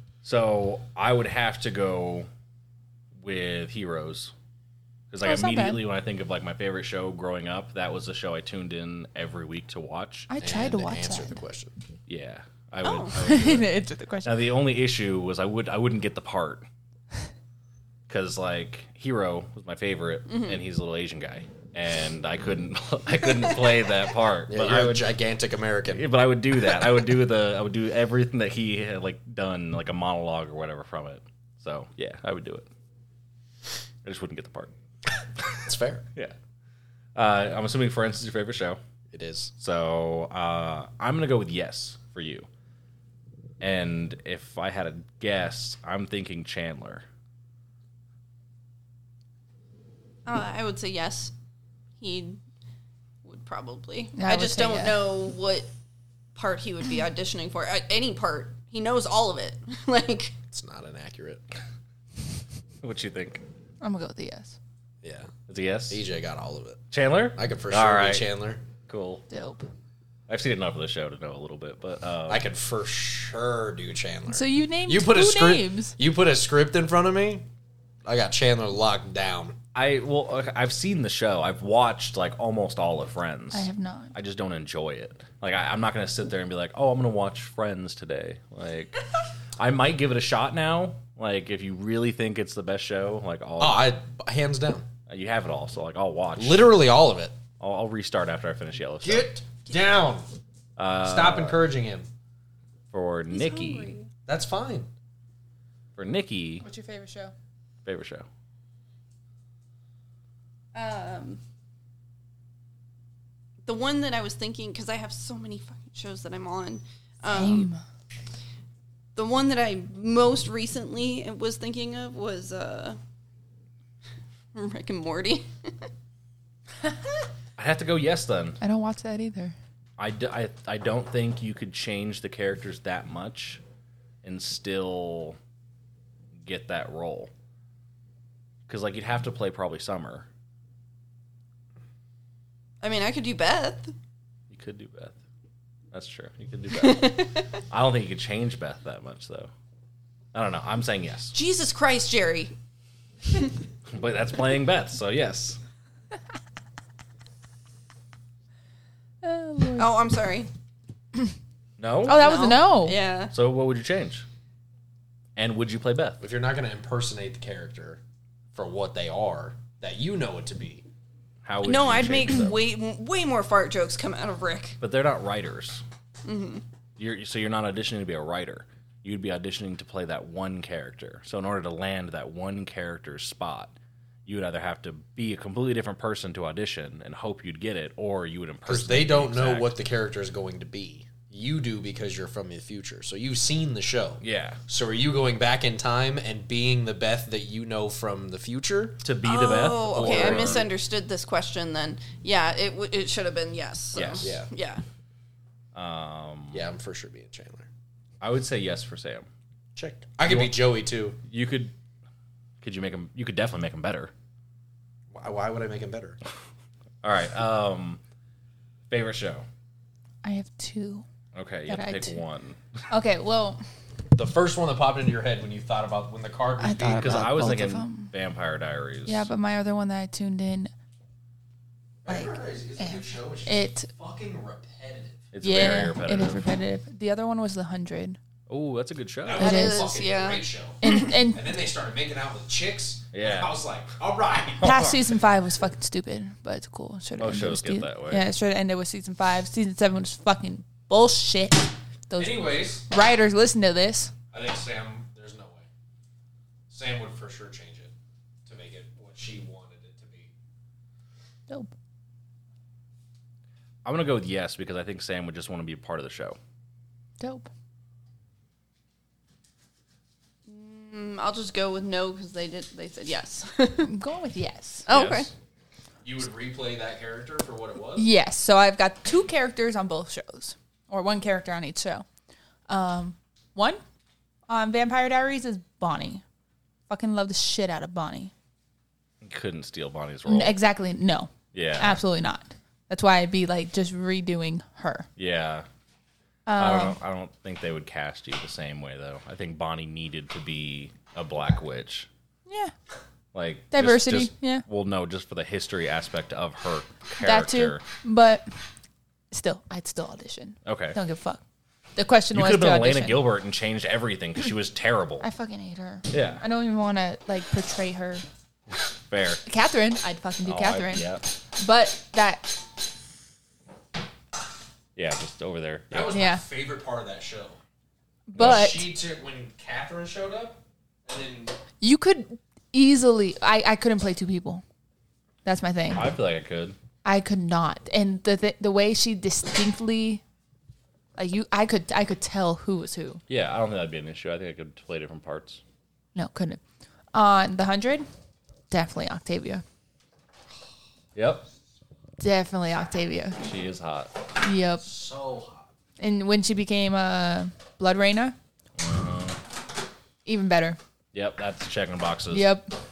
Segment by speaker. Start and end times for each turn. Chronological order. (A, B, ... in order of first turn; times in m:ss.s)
0:00.2-0:02.3 A
0:03.2-0:04.3 A
0:05.1-0:10.3 A
0:05.2-0:05.8 B
0:10.3-0:11.4 B
0:10.4-0:11.7 C
0:12.1-0:16.6 A
0:12.8-0:13.1 D
0:13.1-0:14.3 B
0:18.1-0:25.1 A
0:20.3-0:20.6 D
0:24.5-0:26.1 C
0:25.9-0:32.7 A
0:34.0-0:34.7 A
0:35.6-0:36.0 C
0:37.1-0:38.8 A
0:39.1-0:39.5 C
0:39.6-0:42.5 A
0:43.6-0:47.0 A
0:50.2-0:51.3 D
0:52.0-0:52.4 D
0:53.2-0:55.7 D
0:54.2-0:55.0 B
0:56.3-1:00.3 D
1:00.5-1:01.4 C
1:02.8-1:03.4 A
1:03.8-1:04.6 B
1:05.0-1:05.3 C
1:05.5-1:06.0 A
1:05.9-1:06.8 C
1:06.9-1:08.3 A
1:07.4-1:08.6 C
1:08.9-1:09.2 A
1:09.3-1:09.7 B
1:10.3-1:12.5 A
1:12.3-1:17.5 C
1:14.3-1:16.0 B
1:18.0-1:19.6 C
1:19.7-1:29.0 A
1:23.5-1:24.1 B
1:29.6-1:33.8 A
1:33.6-1:34.9 C
1:35.1-1:36.7 A
1:36.4-1:37.4 C
1:37.6-1:39.3 A
1:39.0-1:40.2 C
1:40.8-1:41.6 A
1:41.0-1:42.1 C
1:42.9-1:44.0 A
1:43.3-1:44.1 D
1:44.2-1:44.9 C
1:45.9-1:46.6 A
1:46.6-1:47.3 B
1:47.8-1:48.2 A
1:50.7-1:51.4 D
1:53.6-1:57.7 D
1:57.3-1:57.8 B
1:59.1-2:03.0 D
2:04.5-2:05.9 D
2:07.6-2:08.6 A
2:08.6-2:09.5 B
2:10.0-2:13.6 A
2:14.2-2:15.4 A
2:16.4-2:17.3 A
2:18.7-2:20.3 A
2:22.8-2:23.9 D
2:24.5-2:25.2 A
2:25.9-2:29.5 A
2:26.7-2:27.4 D
2:30.3-2:31.3 A
2:31.3-2:32.5 D
2:33.9-2:35.6 A
2:39.2-2:39.9 B
2:39.8-2:40.5 D
2:41.8-2:42.3 A
2:42.0-2:43.0 B
2:42.2-2:43.3 D
2:43.3-2:44.2 A
2:45.4-2:46.2 A
2:46.2-2:48.0 C
2:48.5-2:50.8 C
2:51.4-2:52.6 A
2:51.6-2:54.8 D
2:54.8-2:55.8 A
2:56.2-2:56.6 D
2:57.0-3:03.7 A
3:04.2-3:09.8 A
3:08.6-3:19.0 C
3:14.2-3:14.6 A
3:19.0-3:20.6 A
3:19.2-3:24.8 D
3:19.8-3:20.7 C
3:23.9-3:24.3 A
3:24.2-3:24.5 C
3:25.7-3:26.6 A
3:26.5-3:27.7 C
3:28.2-3:29.2 A
3:29.7-3:31.2 C
3:30.2-3:30.6 A
3:31.2-3:31.7 A
3:32.6-3:34.1 A
3:35.1-3:36.2 C
3:37.0-3:38.0 A
3:38.9-3:39.4 A
3:40.2-3:41.0 B
3:41.3-3:42.6 A
3:41.7-3:42.2 B
3:42.9-3:43.6 B
3:44.1-3:47.6 C
3:46.6-3:48.1 B
3:46.9-3:49.3 A
3:49.0-3:50.7 B
3:52.0-3:55.2 C
3:52.1-3:53.9 B
3:55.3-3:56.4 A
3:55.4-3:58.2 B
3:58.5-3:59.5 A
3:59.2-4:04.8 C
3:59.4-4:00.4 D
3:59.4-4:00.0 B
4:00.8-4:01.5 B
4:03.1-4:03.5 A
4:04.6-4:05.0 A
4:04.6-4:14.1 B
4:07.2-4:08.2 A
4:12.2-4:12.8 C
4:14.3-4:15.7 C
4:16.7-4:17.9 C
4:18.4-4:20.3 C
4:23.8-4:26.4 A
4:27.2-4:27.5 B
4:30.5-4:33.9 D
4:33.8-4:34.9 B
4:34.9-4:35.3 D
4:34.9-4:35.3 A
4:36.0-4:38.1 C
4:38.0-4:42.0 B
4:42.7-4:43.8 B
4:44.5-4:46.2 B
4:46.9-4:48.3 B
4:49.2-4:50.6 A
4:50.2-4:55.1 B
4:51.5-4:52.0 A
4:55.2-4:55.6 A
4:56.4-4:57.0 B
4:56.6-5:02.1 A
5:02.5-5:02.7 B
5:03.3-5:07.8 A
5:03.7-5:04.6 B
5:07.2-5:08.5 B
5:09.3-5:11.4 B
5:10.6-5:11.0 A
5:12.0-5:13.2 B
5:12.3-5:15.2 A
5:15.2-5:18.2 B
5:16.1-5:16.4 A
5:19.1-5:19.4 A
5:19.4-5:22.6 B
5:20.4-5:21.2 A
5:25.0-5:26.2 A
5:25.9-5:27.6 C
5:26.1-5:26.4 B
5:28.3-5:28.9 B
5:28.3-5:28.7 A
5:28.3-5:31.6 C
5:31.8-5:34.6 B
5:35.4-5:36.1 B
5:35.9-5:36.8 A
5:37.0-5:40.2 B
5:41.2-5:43.2 B
5:43.3-5:45.6 A
5:46.1-5:46.6 B
5:47.1-5:48.1 B
5:48.7-5:49.6 B
5:51.1-5:51.4 A
5:52.2-5:53.4 B
5:53.4-5:54.1 A
5:54.4-5:54.9 B
5:54.8-5:55.6 C
5:56.0-5:58.4 B
5:58.8-5:59.4 A
6:00.2-6:00.8 B
6:01.1-6:02.5 A
6:02.3-6:02.8 B